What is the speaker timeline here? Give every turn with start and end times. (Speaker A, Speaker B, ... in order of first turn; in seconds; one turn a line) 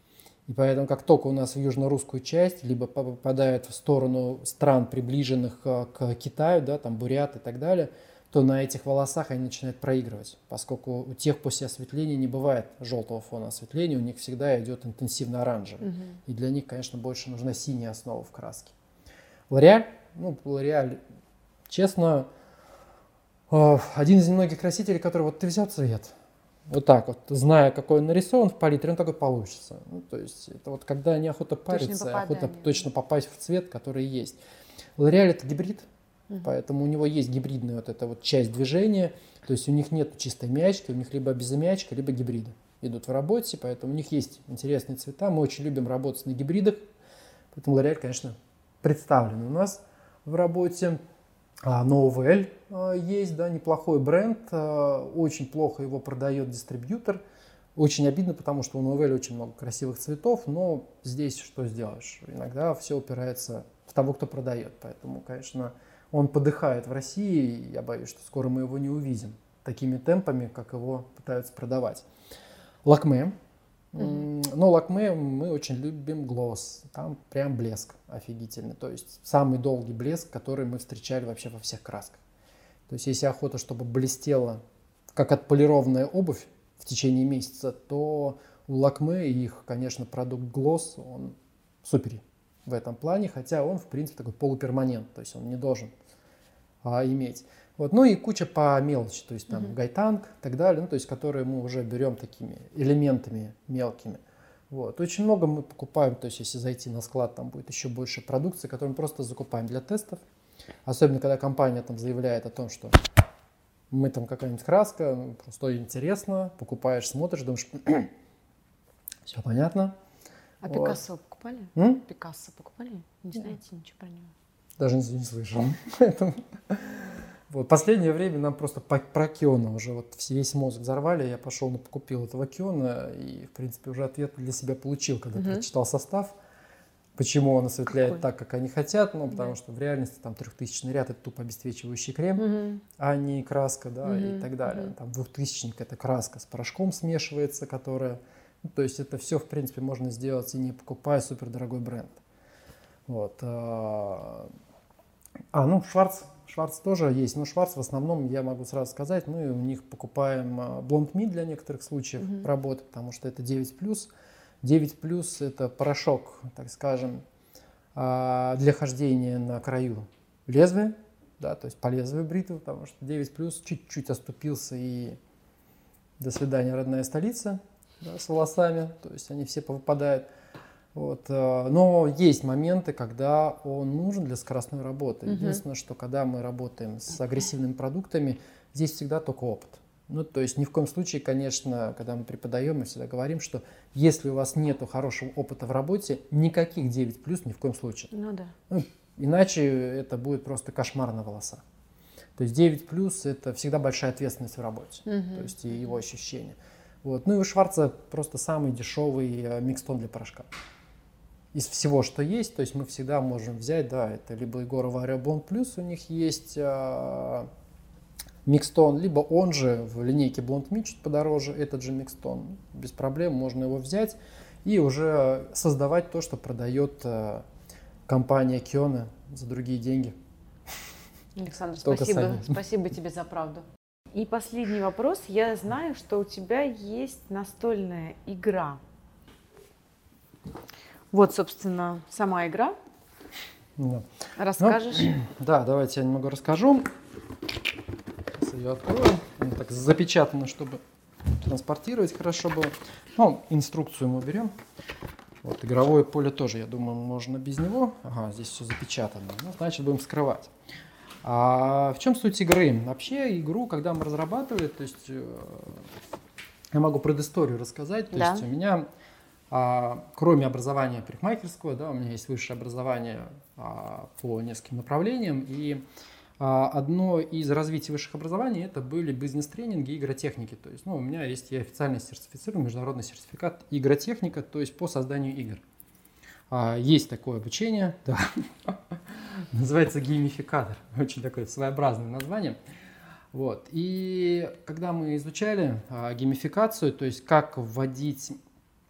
Speaker A: 0.5-18.7
Speaker B: 15.8-16.2
Speaker A: 19.5-21.0
Speaker A: 21.7-22.3
Speaker A: 23.5-26.1
Speaker A: 26.7-34.4
Speaker B: 31.7-32.9
Speaker A: 35.0-35.9
Speaker A: 36.4-46.8
Speaker A: 47.5-51.0
Speaker A: 51.6-57.2
Speaker A: 57.8-72.0
Speaker A: 72.8-73.3
Speaker A: 73.9-82.2
Speaker A: 82.9-84.6
Speaker A: 85.1-95.9
Speaker A: 96.8-110.2
Speaker A: 110.8-113.0
Speaker A: 113.9-118.1
Speaker A: 119.3-119.9
Speaker B: 120.6-124.3
Speaker A: 120.7-121.0
Speaker A: 121.7-122.0
Speaker A: 124.8-136.3
Speaker B: 135.3-135.6
Speaker A: 137.2-142.4
Speaker B: 142.4-142.8
Speaker A: 143.0-152.2
Speaker B: 144.0-144.9
Speaker A: 153.1-154.5
Speaker A: 155.5-164.1
Speaker A: 164.6-167.2
Speaker A: 167.9-175.2
Speaker A: 176.2-180.2
Speaker A: 180.9-198.1
Speaker B: 185.3-185.6
Speaker B: 198.1-198.5
Speaker A: 198.7-201.6
Speaker A: 202.4-210.5
Speaker B: 205.1-205.6
Speaker A: 211.5-217.5
Speaker A: 218.4-227.4
Speaker A: 228.1-230.1
Speaker B: 231.3-238.8
Speaker A: 231.8-232.6
Speaker B: 241.1-242.7
Speaker A: 243.8-244.1
Speaker B: 244.4-245.1
Speaker A: 244.6-246.9
Speaker A: 248.3-254.5
Speaker A: 255.4-260.5
Speaker A: 261.2-265.9
Speaker A: 266.7-268.9
Speaker B: 268.1-268.4
Speaker A: 269.5-275.8
Speaker A: 276.4-285.6
Speaker A: 286.5-292.6
Speaker A: 293.3-298.4